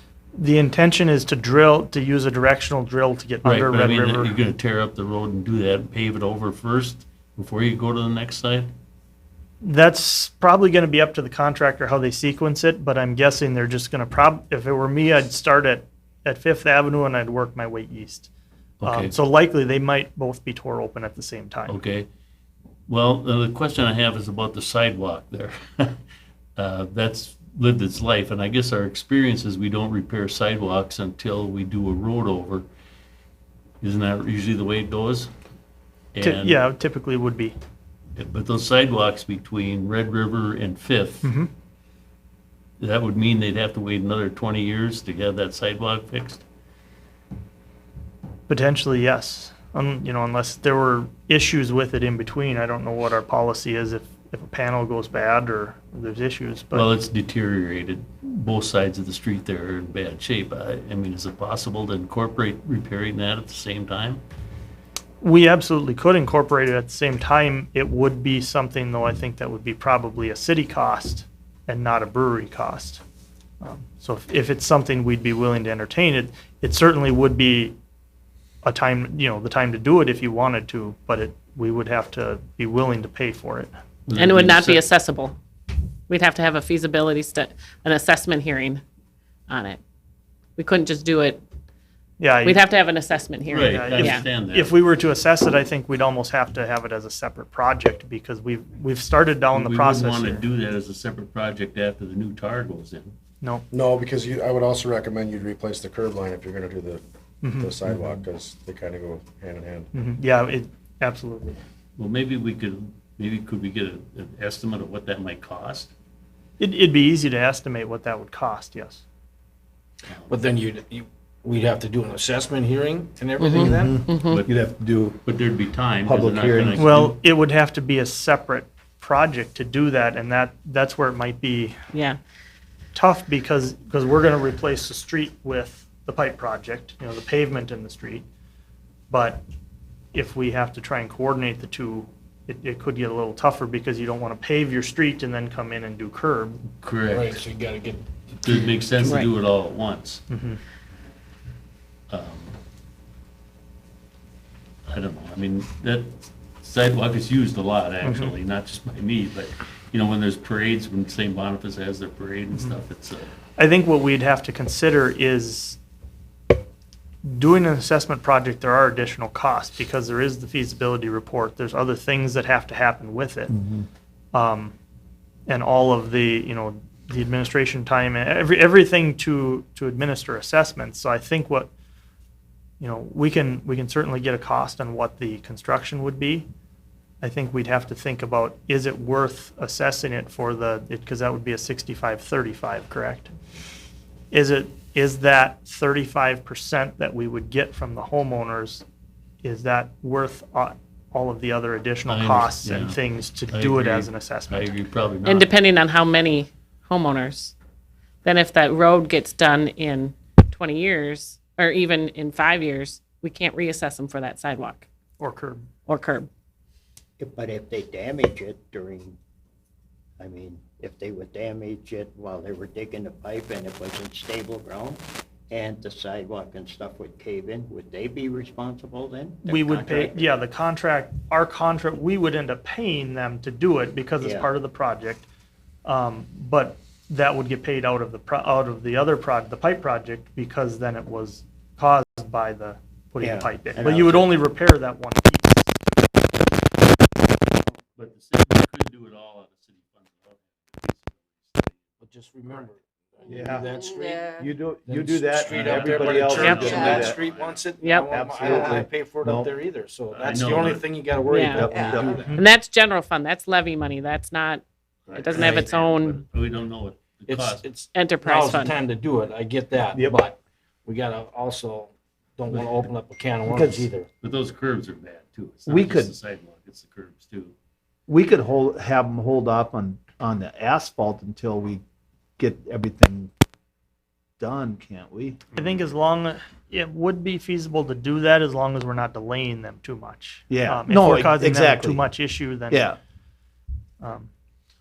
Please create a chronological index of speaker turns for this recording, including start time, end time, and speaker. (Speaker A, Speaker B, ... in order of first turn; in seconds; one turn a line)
Speaker A: 0.4-4.3
Speaker B: 3.4-8.7
Speaker A: 9.6-18.3
Speaker B: 18.8-19.1
Speaker A: 18.8-21.8
Speaker B: 21.7-22.1
Speaker B: 22.9-26.0
Speaker B: 26.6-32.6
Speaker B: 33.8-35.3
Speaker B: 36.1-36.6
Speaker A: 36.2-37.5
Speaker B: 38.1-41.3
Speaker A: 41.2-41.5
Speaker B: 42.8-46.4
Speaker A: 48.5-56.9
Speaker B: 56.7-64.2
Speaker A: 65.2-73.0
Speaker A: 73.6-77.7
Speaker A: 78.6-83.7
Speaker B: 84.0-84.9
Speaker C: 84.2-85.4
Speaker C: 86.1-88.8
Speaker C: 89.5-89.8
Speaker C: 90.6-91.4
Speaker A: 92.2-92.6
Speaker C: 92.4-94.3
Speaker B: 93.5-94.7
Speaker A: 93.5-100.5
Speaker B: 99.5-103.1
Speaker D: 103.7-107.0
Speaker A: 107.4-107.9
Speaker D: 107.5-109.9
Speaker A: 109.9-111.6
Speaker B: 112.0-115.9
Speaker A: 116.6-119.0
Speaker B: 120.0-120.3
Speaker E: 120.3-124.0
Speaker C: 123.4-124.4
Speaker F: 123.6-125.2
Speaker B: 124.2-124.6
Speaker B: 125.2-127.2
Speaker F: 126.0-126.9
Speaker A: 126.8-131.8
Speaker C: 131.9-132.2
Speaker A: 132.9-138.2
Speaker A: 139.1-139.4
Speaker A: 140.1-146.6
Speaker B: 146.7-147.4
Speaker E: 147.1-148.1
Speaker B: 148.4-150.2
Speaker C: 149.0-149.3
Speaker A: 150.3-150.6
Speaker B: 152.1-152.6
Speaker B: 154.9-163.3
Speaker A: 158.0-158.3
Speaker A: 162.5-162.8
Speaker A: 163.6-165.8
Speaker A: 167.2-173.5
Speaker F: 173.5-173.8
Speaker A: 174.3-174.7
Speaker A: 175.5-181.7
Speaker A: 182.8-186.5
Speaker A: 187.2-193.3
Speaker A: 194.3-198.8
Speaker A: 199.4-204.8
Speaker B: 202.1-205.5
Speaker C: 205.2-207.5
Speaker C: 208.2-214.9
Speaker A: 215.2-215.7
Speaker C: 215.9-216.3
Speaker G: 217.2-219.2
Speaker G: 220.2-230.3
Speaker A: 229.4-235.3
Speaker G: 234.2-234.5
Speaker A: 235.8-245.7
Speaker G: 243.2-244.3
Speaker B: 247.9-251.8
Speaker E: 252.0-254.2
Speaker F: 253.2-257.2
Speaker E: 254.8-256.5
Speaker B: 255.4-257.6
Speaker C: 256.4-256.8
Speaker E: 257.1-262.2
Speaker C: 257.8-258.1
Speaker F: 258.1-259.5
Speaker B: 260.1-260.9
Speaker C: 261.2-261.8
Speaker F: 261.5-262.3
Speaker A: 262.1-262.4
Speaker C: 262.3-266.2
Speaker B: 265.1-267.6
Speaker E: 267.3-274.1
Speaker C: 267.9-268.8
Speaker F: 269.8-270.2
Speaker B: 272.5-272.9
Speaker F: 273.5-273.9
Speaker B: 274.2-277.5
Speaker F: 275.7-276.1
Speaker F: 278.1-281.8
Speaker F: 282.4-283.3
Speaker F: 284.4-285.4
Speaker A: 285.5-292.9
Speaker F: 290.5-293.0
Speaker A: 294.0-294.3